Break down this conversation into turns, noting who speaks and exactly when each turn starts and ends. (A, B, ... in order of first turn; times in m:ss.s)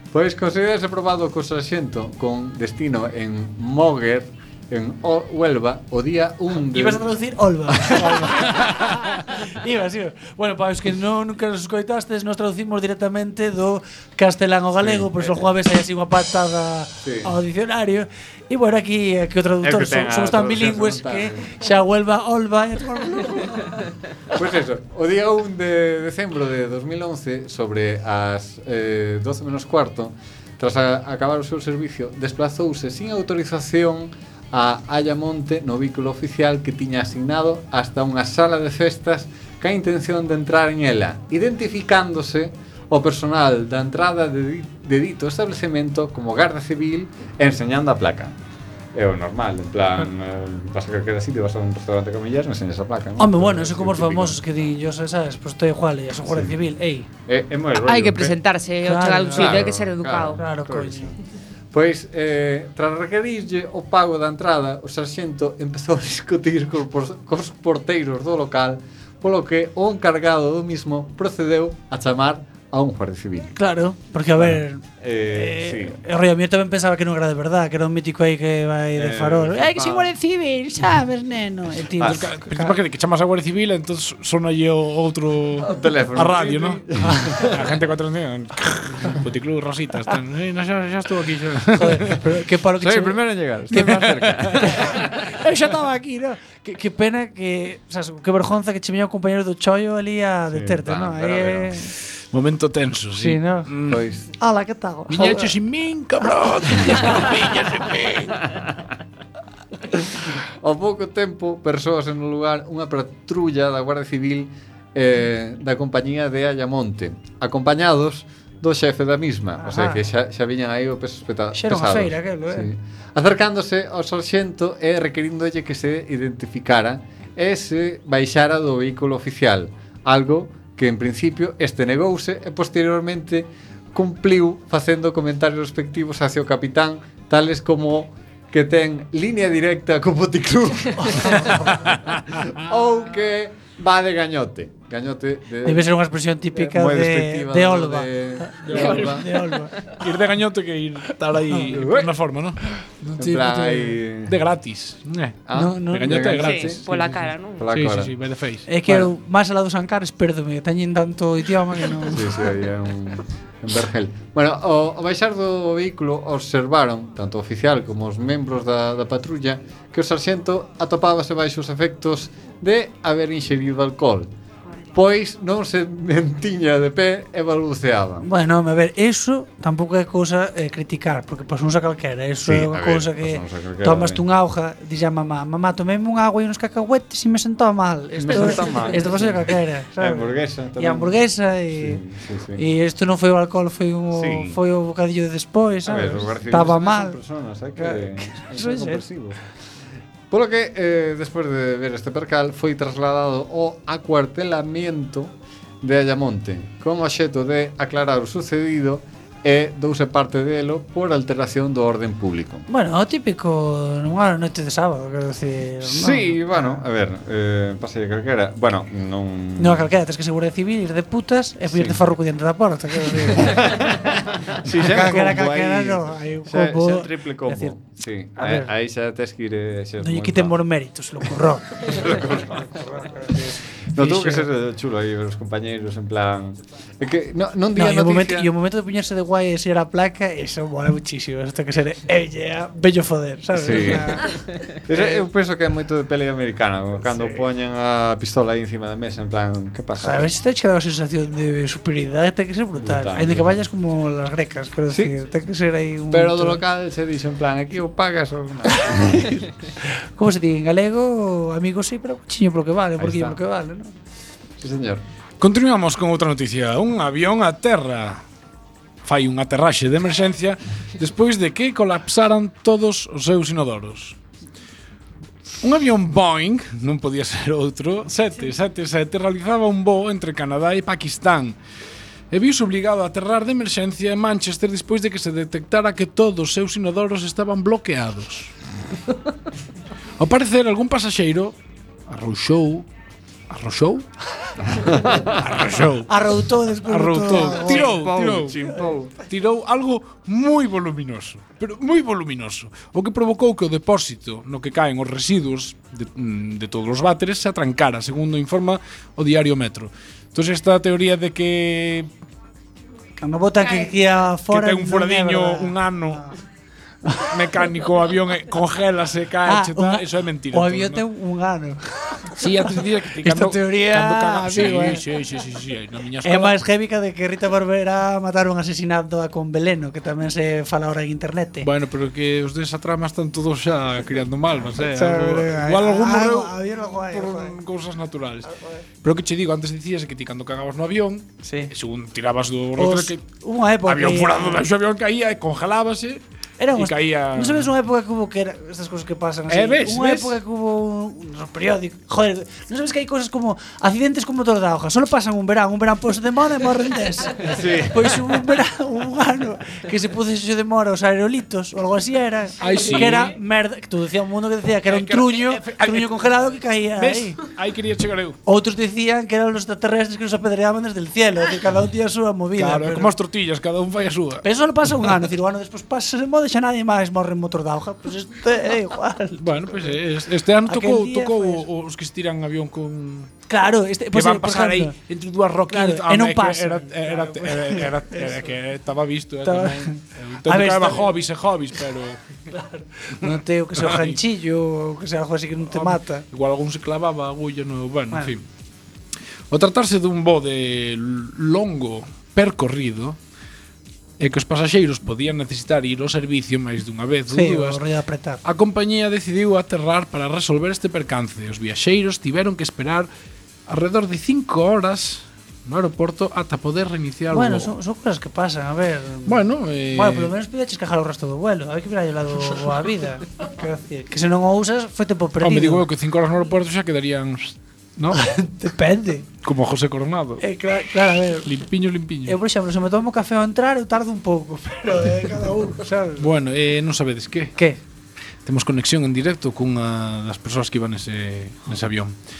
0:00.1-0:07.1 A
0:06.6-0:23.8 B
0:07.9-0:08.2 A
0:14.8-0:15.4 A
0:17.0-0:17.3 A
0:19.6-0:21.4 A
0:24.3-0:48.3 A
0:48.9-0:54.4 A
0:53.2-0:57.1 B
0:56.3-0:56.6 A
0:57.3-0:58.4 A
0:57.8-1:00.4 C
0:58.8-0:59.7 B
0:59.3-1:01.1 A
1:00.4-1:01.2 B
1:01.7-1:13.5 A
1:13.6-1:22.8 B
1:14.4-1:16.0 A
1:19.0-1:20.1 A
1:22.0-1:22.2 A
1:22.0-1:26.8 D
1:25.6-1:27.7 A
1:27.0-1:27.4 B
1:27.3-1:32.2 D
1:31.7-1:41.8 B
1:32.8-1:35.2 A
1:33.8-1:34.5 D
1:40.5-1:41.8 A
1:42.3-1:44.0 D
1:43.1-1:43.7 B
1:43.9-1:44.3 A
1:44.4-1:45.5 B
1:45.1-1:48.4 D
1:50.4-2:25.9 A
1:59.6-2:00.0 B
2:01.5-2:02.7 B
2:21.0-2:21.7 B
2:25.6-2:29.9 B
2:26.5-2:29.3 A
2:28.6-2:29.3 D
2:29.8-2:38.7 D
2:31.5-2:31.8 B
2:31.7-2:32.1 A
2:33.0-2:33.6 B
2:33.2-2:34.4 A
2:35.5-2:36.8 A
2:35.5-2:36.3 B
2:36.3-2:37.6 C
2:37.6-2:38.1 A
2:38.7-2:42.2 B
2:42.1-2:54.3 A
2:54.9-2:58.2 A
2:58.2-3:12.0 B
3:02.4-3:04.2 A
3:08.2-3:11.2 A
3:11.8-3:12.6 A
3:12.6-3:17.2 B
3:14.1-3:14.6 A
3:15.8-3:19.4 A
3:17.8-3:19.0 B
3:20.3-3:32.6 A
3:32.7-3:36.8 B
3:35.8-3:39.9 A
3:39.6-3:43.8 B
3:41.7-3:42.0 A
3:43.4-3:50.6 A
3:44.9-3:47.8 B
3:48.4-3:48.7 B
3:50.0-3:52.1 B
3:51.8-3:58.5 A
3:52.8-3:54.5 B
3:57.7-4:05.2 B
4:03.5-4:10.3 A
4:10.0-4:16.6 B
4:12.8-4:13.5 A
4:16.1-4:19.4 A
4:18.9-4:19.3 B
4:20.2-4:23.9 B
4:23.0-4:23.4 A
4:24.6-4:25.0 A
4:25.4-4:28.2 D
4:29.0-4:34.2 D
4:35.6-4:41.6 D
4:42.3-4:48.5 D
4:50.2-4:51.5 D
4:52.1-4:52.8 D
4:53.5-4:54.1 D
4:54.7-4:55.4 A
4:55.4-4:56.1 D
4:56.1-4:58.0 B
4:56.8-4:58.6 D
4:57.5-4:59.1 A
4:59.2-5:12.1 D
5:13.2-5:16.2 B
5:14.5-5:16.3 D
5:17.1-5:17.3 B
5:17.1-5:21.0 D
5:19.4-5:25.0 B
5:22.4-5:26.5 D
5:26.2-5:31.7 B
5:31.6-5:38.5 D
5:34.8-5:37.6 B
5:38.4-5:38.8 B
5:39.0-5:43.2 D
5:41.4-5:41.7 B
5:42.8-5:44.6 B
5:43.8-5:46.2 D
5:46.6-6:07.4 B
5:46.7-5:47.7 D
5:49.5-5:50.4 D
5:57.5-5:58.2 A
6:02.6-6:03.4 D
6:04.8-6:08.4 D
6:08.4-6:13.1 B
6:12.6-6:14.4 D
6:14.4-6:20.0 B
6:19.4-6:23.3 D
6:20.7-6:21.6 B
6:23.5-6:24.9 B
6:24.1-6:32.2 D
6:25.7-6:28.5 B
6:29.4-6:31.1 B
6:32.5-6:36.2 B
6:33.2-6:34.2 D
6:35.7-6:38.4 D
6:39.5-6:43.2 D
6:44.2-6:47.8 D
6:47.3-6:48.4 B
6:48.4-6:53.1 D
6:53.7-6:57.7 D
6:57.3-6:59.4 B
6:59.2-7:00.3 D
6:59.9-7:05.8 B
7:05.4-7:08.3 D
7:08.2-7:09.2 B
7:09.4-7:10.4 D
7:10.4-7:11.5 B
7:11.4-7:12.4 D
7:12.2-7:16.3 B
7:16.2-7:17.6 D
7:18.4-7:22.1 D